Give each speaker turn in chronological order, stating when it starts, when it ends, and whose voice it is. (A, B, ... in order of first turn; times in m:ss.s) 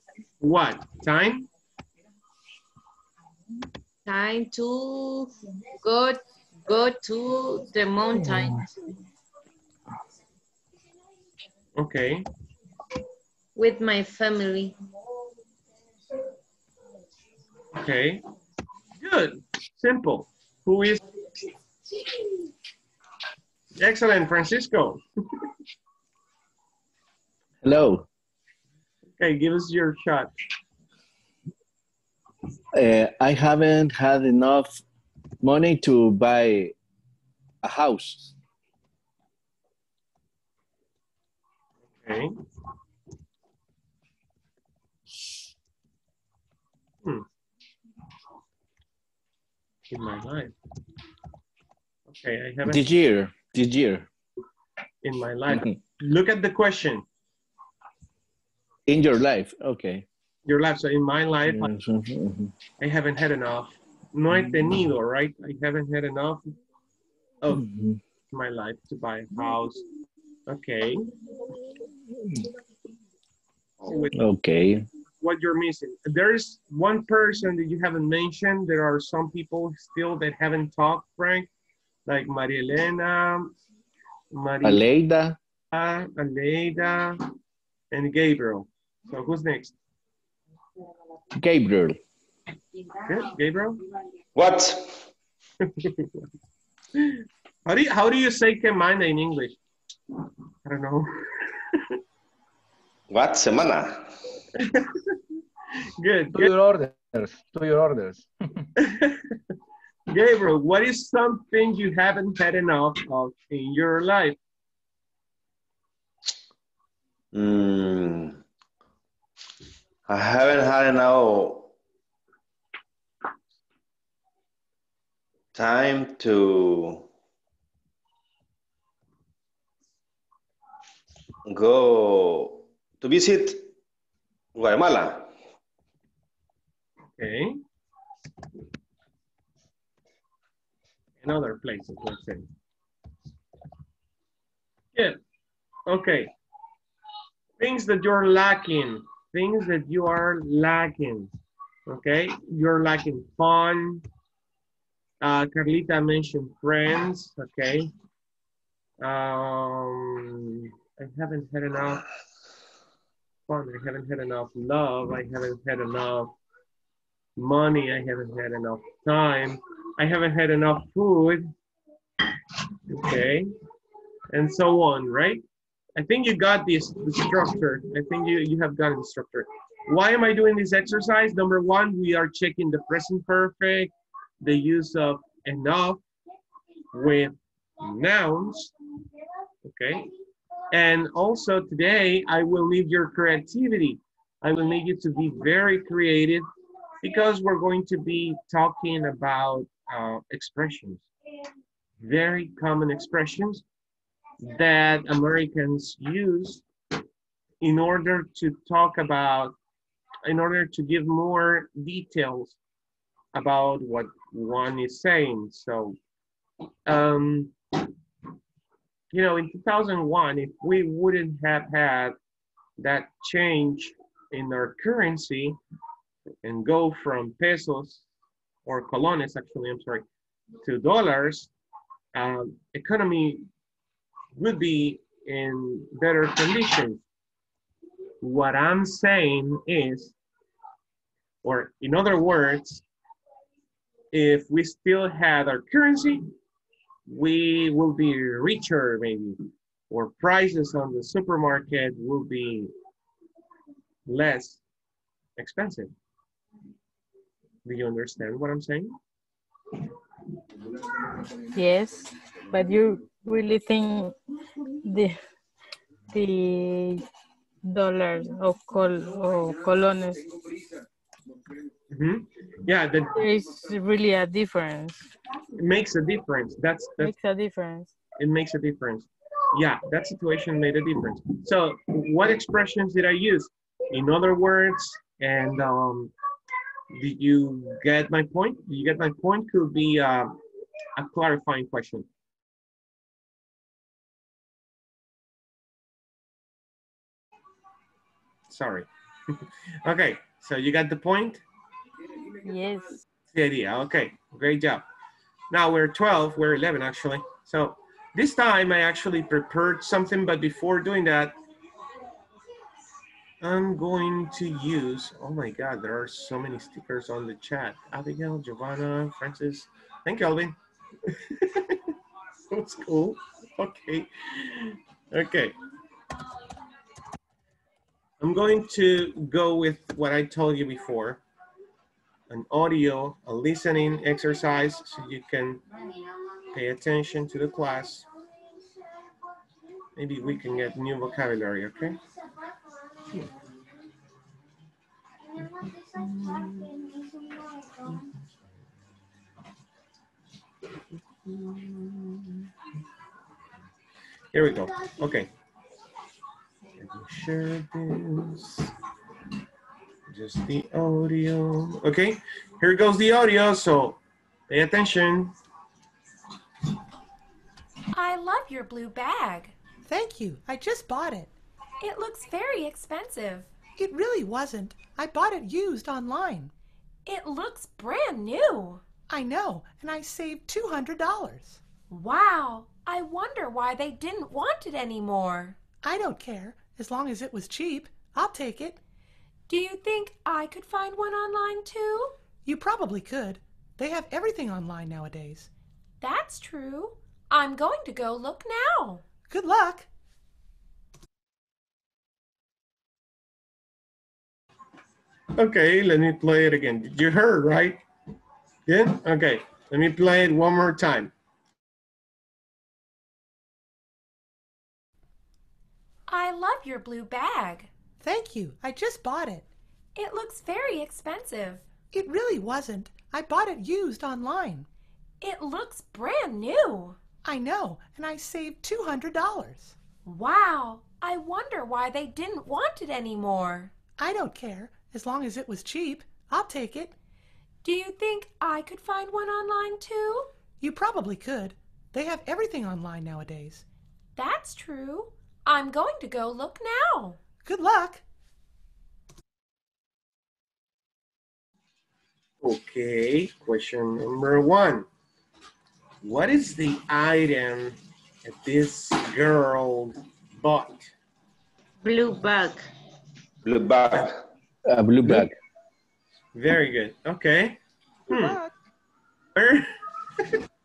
0:00.4-0:01.5 A
0:04.1-0:08.7 B
0:11.8-0:12.3 A
0:13.6-0:14.8 B
0:17.7-0:18.2 A
0:19.0-0:21.0 A
0:23.8-0:25.4 A
0:27.6-0:28.1 C
0:29.2-0:30.3 A
0:32.8-0:34.8 C
0:35.4-0:36.7 C
0:37.6-0:38.3 C
0:41.9-0:42.3 A
0:49.9-0:50.5 A
0:52.1-0:53.0 A
0:52.6-0:54.1 C
0:55.0-0:57.0 A
0:55.5-0:55.8 C
0:58.9-1:00.1 C
1:00.5-1:01.7 A
1:01.4-1:02.5 C
1:02.8-1:06.5 A
1:04.3-1:04.8 C
1:07.4-1:07.7 A
1:07.5-1:08.0 C
1:08.3-1:09.8 A
1:10.5-1:11.1 A
1:13.8-1:14.1 A
1:14.1-1:14.9 C
1:15.2-1:21.5 A
1:22.1-1:23.6 A
1:24.3-1:24.9 A
1:24.6-1:25.4 C
1:25.7-1:27.3 A
1:27.9-1:29.7 A
1:31.4-1:32.0 C
1:33.0-1:33.8 A
1:34.4-1:35.0 D
1:35.6-1:36.1 A
1:37.0-1:39.6 A
1:40.6-1:42.0 A
1:43.1-1:44.1 D
1:44.6-1:45.2 A
1:46.0-1:46.5 A
1:46.3-1:48.7 E
1:48.8-1:49.4 A
1:50.1-1:54.4 A
1:57.3-1:58.4 D
2:00.1-2:01.7 D
2:05.5-2:07.1 D
2:11.5-2:13.7 D
2:14.6-2:15.3 D
2:17.2-2:17.6 A
2:21.2-2:22.5 A
2:25.9-2:26.3 A
2:27.6-2:31.3 A
2:31.9-2:34.0 A
2:35.2-2:37.9 A
2:39.0-2:42.0 A
2:43.5-2:46.4 A
2:47.4-2:51.5 A
2:52.9-2:53.5 A
2:54.3-2:55.4 A
2:56.0-3:03.9 A
3:04.4-3:06.0 A
3:06.9-3:08.7 A
3:09.6-3:10.1 A
3:10.7-3:16.4 A
3:17.0-3:21.0 A
3:22.0-3:23.6 A
3:24.4-3:26.6 A
3:27.6-3:29.6 A
3:30.2-3:32.6 A
3:33.3-3:36.0 A
3:36.9-3:37.6 A
3:39.1-3:42.2 A
3:42.8-3:45.6 A
3:46.4-3:48.0 A
3:48.7-3:50.0 A
3:50.6-3:51.5 A
3:52.2-3:53.5 A
3:54.4-3:57.0 A
3:58.2-4:00.2 A
4:01.4-4:02.8 A
4:04.1-4:06.3 A
4:07.1-4:12.7 A
4:14.1-4:14.6 A
4:15.4-4:15.9 A
4:17.6-4:19.0 A
4:21.6-4:24.2 F
4:24.8-4:25.2 F
4:26.1-4:27.0 F
4:27.7-4:30.3 F
4:31.9-4:33.2 A
4:33.2-4:35.1 F
4:35.6-4:37.1 A
4:37.0-4:38.0 F
4:38.2-4:46.1 A
4:46.9-4:50.4 A
4:51.0-4:52.1 A
4:58.5-5:01.4 A
5:02.4-5:03.0 F
5:03.3-5:04.8 A
5:05.5-5:11.4 A
5:13.4-5:21.9 A
5:22.5-5:25.6 A
5:28.2-5:31.2 A
5:32.3-5:35.6 A
5:36.5-5:38.1 A
5:40.0-5:42.0 A
5:54.3-5:55.3 A
5:56.8-5:58.7 A
6:00.1-6:05.4 A
6:07.9-6:09.5 G
6:09.8-6:11.3 H
6:11.8-6:13.5 G
6:13.8-6:16.5 H
6:17.1-6:18.8 G
6:19.1-6:21.6 H
6:21.9-6:25.6 G
6:25.8-6:28.8 H
6:29.5-6:32.2 G
6:32.4-6:35.5 H
6:36.0-6:39.0 G
6:39.3-6:39.9 H
6:45.4-6:47.8 A
6:48.7-6:51.1 A
6:56.1-6:57.7 G
6:58.0-6:59.4 H
7:00.0-7:01.6 G
7:01.9-7:04.7 H
7:05.2-7:07.0 G
7:07.2-7:09.7 H
7:10.0-7:13.7 G
7:14.0-7:17.0 H
7:17.6-7:20.3 G
7:20.6-7:23.6 H
7:24.2-7:27.2 G
7:27.4-7:28.0 H
7:32.4-7:34.9 A
7:36.0-7:40.9 A
7:41.8-7:42.7 B
7:43.4-7:44.2 D
7:44.7-7:45.3 C
7:46.4-7:48.4 A
7:48.1-7:48.5 H
7:49.4-7:50.4 A